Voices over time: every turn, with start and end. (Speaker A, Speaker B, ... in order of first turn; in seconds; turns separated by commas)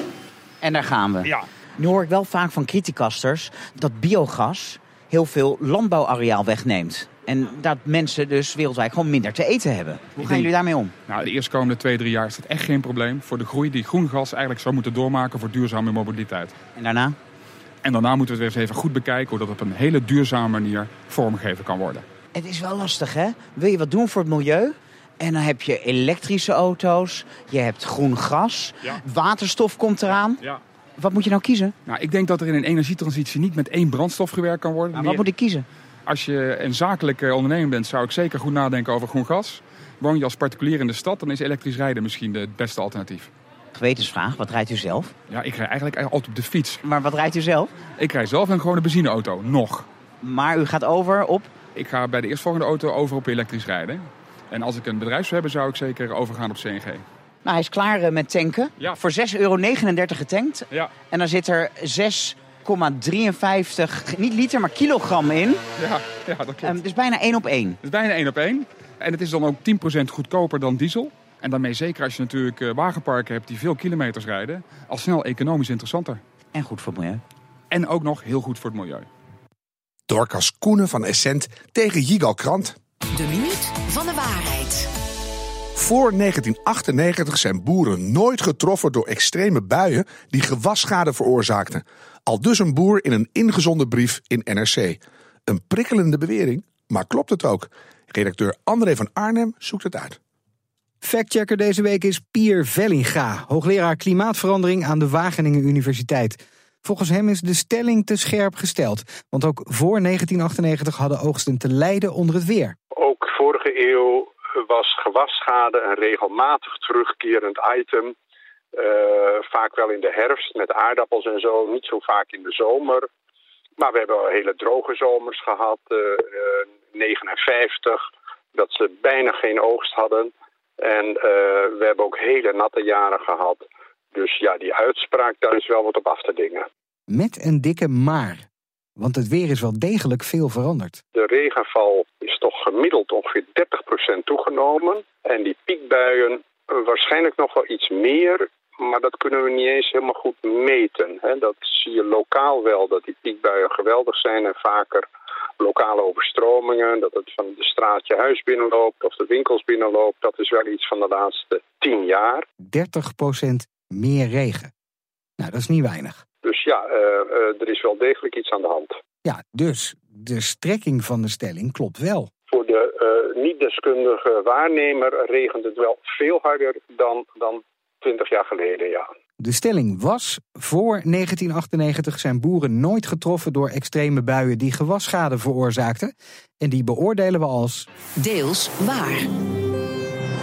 Speaker A: 0.6-10.9, Speaker B: 10.2-10.5, Speaker B: 11.1-16.5, Speaker A: 16.8-17.2, Speaker B: 17.8-22.1, Speaker A: 22.3-30.4, Speaker A: 31.0-31.7, Speaker B: 31.9-35.2, Speaker A: 34.9-35.6, Speaker B: 36.1-43.3, Speaker A: 43.7-45.1, Speaker B: 45.3-46.8, Speaker A: 46.8-47.7, Speaker B: 48.0-49.9, Speaker A: 50.2-51.5, Speaker B: 51.8-57.0, Speaker A: 57.5-65.6, Speaker B: 65.8-66.8, Speaker A: 66.6-67.8, Speaker B: 67.8-76.2, Speaker A: 76.5-77.2, Speaker B: 77.7-79.1, Speaker C: 80.1-82.8, Speaker D: 83.1-84.9, Speaker C: 85.8-100.2, Speaker E: 101.0-112.8, Speaker F: 112.9-118.1, Speaker F: 118.7-123.1, Speaker F: 123.8-128.0, Speaker F: 128.6-136.7, Speaker E: 137.1-138.5, Speaker E: 139.0-141.0, Speaker F: 141.1-155.1, Speaker F: 155.6-162.4, Speaker E: 162.7-164.7, Speaker E: 165.4-166.2, Speaker F: 166.4-169.0, Speaker E: 169.2-172.3, Speaker F: 172.5-179.1, Speaker E: 179.4-187.9, Speaker D: 188.2-189.3